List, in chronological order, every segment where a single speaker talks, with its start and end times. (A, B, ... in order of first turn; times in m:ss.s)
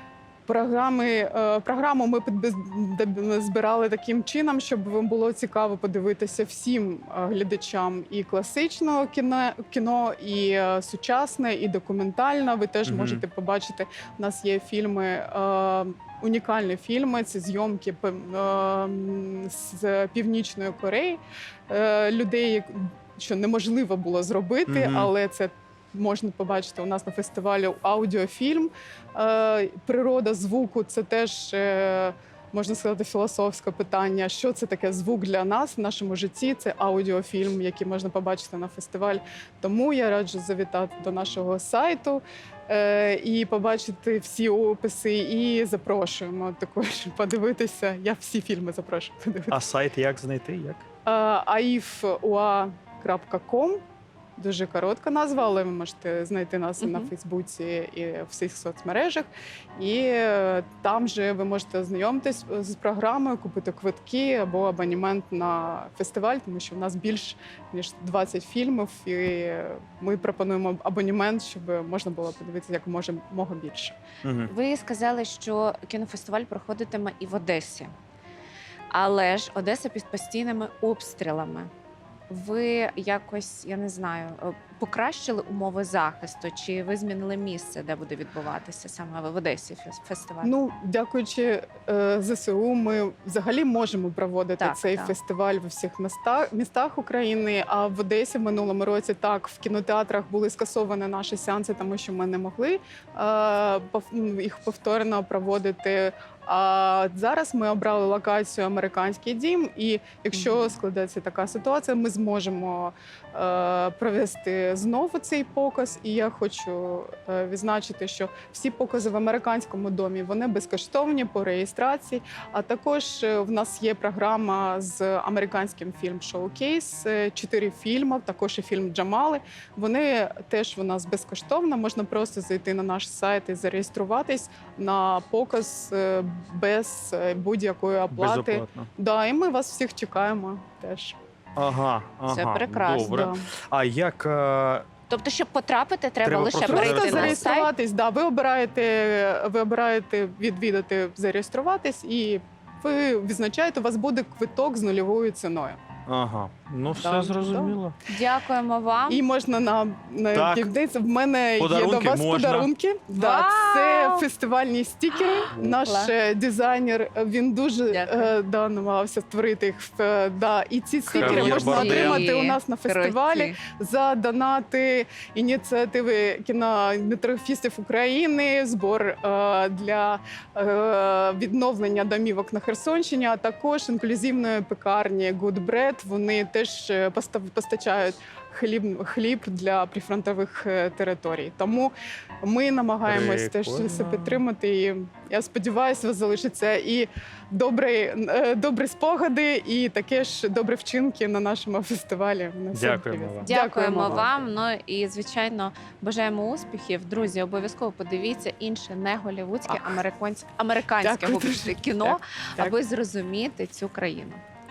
0:00.5-0:49.6 A
0:12.8-0:13.2 B
0:24.7-0:25.1 B
0:49.5-0:50.8 B
0:51.0-0:53.8 A
0:54.4-1:14.0 A
0:56.8-0:57.1 C
1:14.2-1:14.5 B
1:14.5-1:17.9 C
1:18.9-1:21.7 C
1:22.3-1:30.5 C
1:30.4-2:21.2 A
1:34.6-1:35.1 C
2:18.1-2:18.9 B
2:21.6-2:24.9 B
2:22.3-2:23.3 C
2:23.0-2:23.5 A
2:25.1-2:27.7 C
2:26.2-2:27.5 B
2:26.6-2:35.8 A
2:36.1-2:38.0 B
2:37.0-2:39.2 C
2:39.1-3:24.4 A
2:40.3-2:40.7 B
2:41.6-2:42.7 B
2:43.1-2:44.2 C
2:45.2-2:46.1 C
2:47.9-2:48.3 C
2:51.1-2:52.3 B
2:51.1-2:53.6 C
3:13.0-3:14.4 B
3:22.7-3:23.5 B
3:23.4-3:34.4 C
3:29.7-3:30.0 A
3:31.0-3:32.8 A